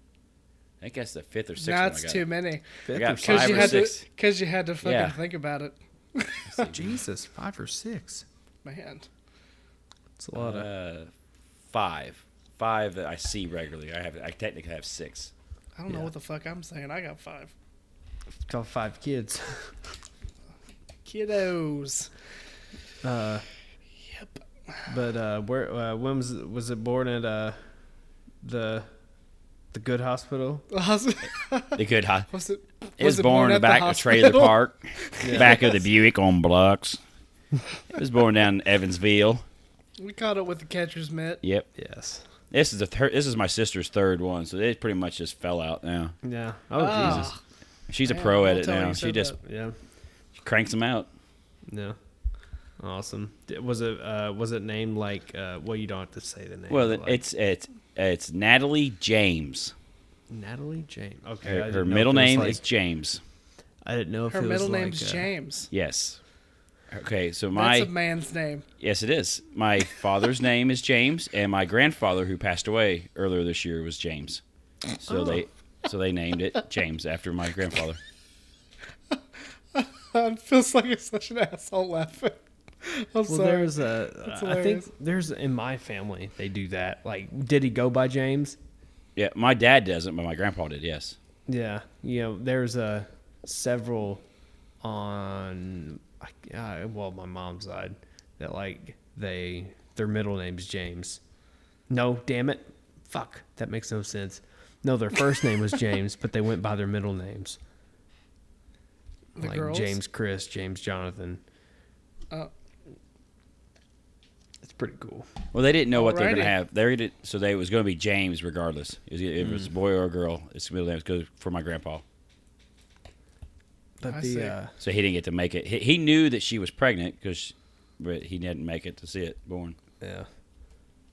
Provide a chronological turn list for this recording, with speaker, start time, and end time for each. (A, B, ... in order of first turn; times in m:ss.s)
0:00.8-0:02.3 A
0:01.6-0:06.7 B
0:02.9-0:03.9 C
0:02.9-0:04.0 A
0:04.8-0:05.2 A
0:06.5-0:06.9 A
0:06.7-0:08.2 C
0:08.6-0:09.1 B
0:10.2-0:10.7 C
0:10.4-0:11.1 A
0:11.7-0:15.3 A
0:15.8-0:17.5 B
0:18.4-0:19.8 C
0:21.0-0:22.1 B
0:23.0-0:23.5 C
0:24.1-0:24.8 B
0:24.9-0:27.6 C
0:28.4-0:28.9 C
0:29.7-0:30.7 C
0:30.7-0:35.8 B
0:31.8-0:32.3 A
0:33.0-0:37.0 A
0:35.2-0:35.6 C
0:37.9-0:39.4 A
0:40.0-0:41.4 B
0:41.4-0:41.7 A
0:41.8-0:42.3 C
0:42.5-0:46.2 A
0:46.2-0:47.3 C
0:46.8-0:47.4 B
0:47.0-0:47.3 A
0:47.9-0:49.4 A
0:48.0-0:49.4 B
0:49.4-0:49.8 C
0:50.4-0:51.1 A
0:51.7-0:52.0 C
0:52.8-0:57.2 C
0:56.7-0:59.7 A
1:00.3-1:02.6 C
1:01.4-1:03.2 A
1:03.8-1:05.3 C
1:04.3-1:05.7 B
1:05.7-1:06.2 A
1:06.9-1:07.9 A
1:07.5-1:08.6 B
1:08.8-1:14.4 A
1:15.0-1:18.0 A
1:15.0-1:15.4 C
1:19.7-1:24.9 B
1:23.3-1:28.6 C
1:29.2-1:31.2 A
1:31.5-1:34.2 C
1:34.8-1:41.2 C
1:41.9-1:47.6 C
1:49.4-1:50.0 B
1:49.4-1:51.4 C
1:54.6-1:55.3 C
1:55.5-2:02.0 A
1:55.9-1:56.5 B
1:59.4-1:59.7 C
2:04.0-2:04.7 C
2:04.1-2:04.6 B
2:04.8-2:09.8 A
2:10.0-2:10.3 C